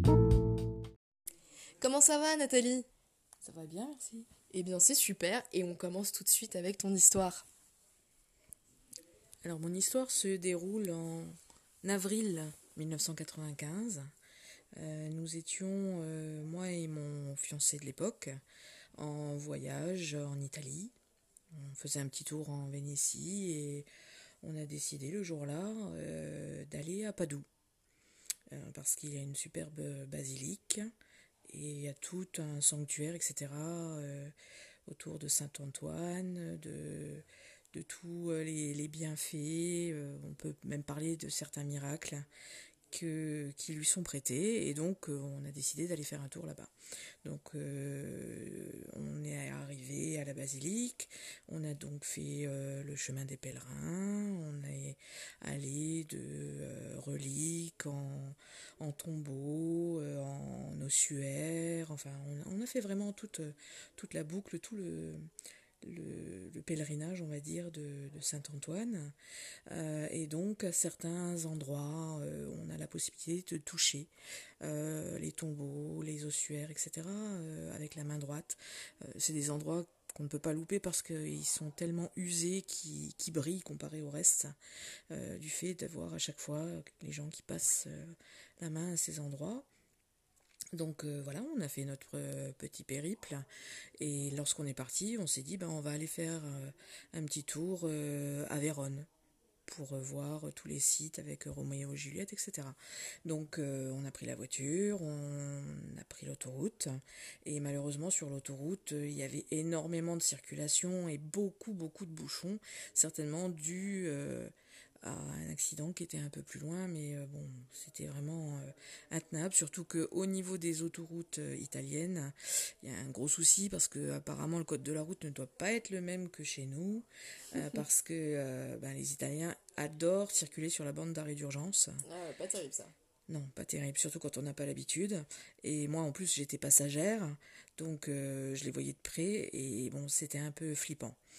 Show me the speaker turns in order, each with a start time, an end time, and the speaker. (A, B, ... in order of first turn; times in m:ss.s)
0:01.8-0:02.8 A
0:03.4-0:04.3 B
0:04.5-0:07.4 A
0:09.4-0:14.1 B
0:14.8-0:18.4 B
0:19.0-0:20.9 B
0:21.5-0:23.9 B
0:24.4-0:27.4 B
0:28.5-0:30.9 B
0:31.5-0:34.3 B
0:34.9-0:42.2 B
0:42.9-0:46.7 B
0:47.2-1:05.3 B
1:05.8-1:09.1 B
1:09.7-1:14.1 B
1:14.6-1:24.5 B
1:25.1-1:29.7 B
1:30.7-1:33.4 B
1:34.0-1:39.1 B
1:39.7-2:12.0 B
2:12.0-2:12.9 A
2:13.3-2:21.2 B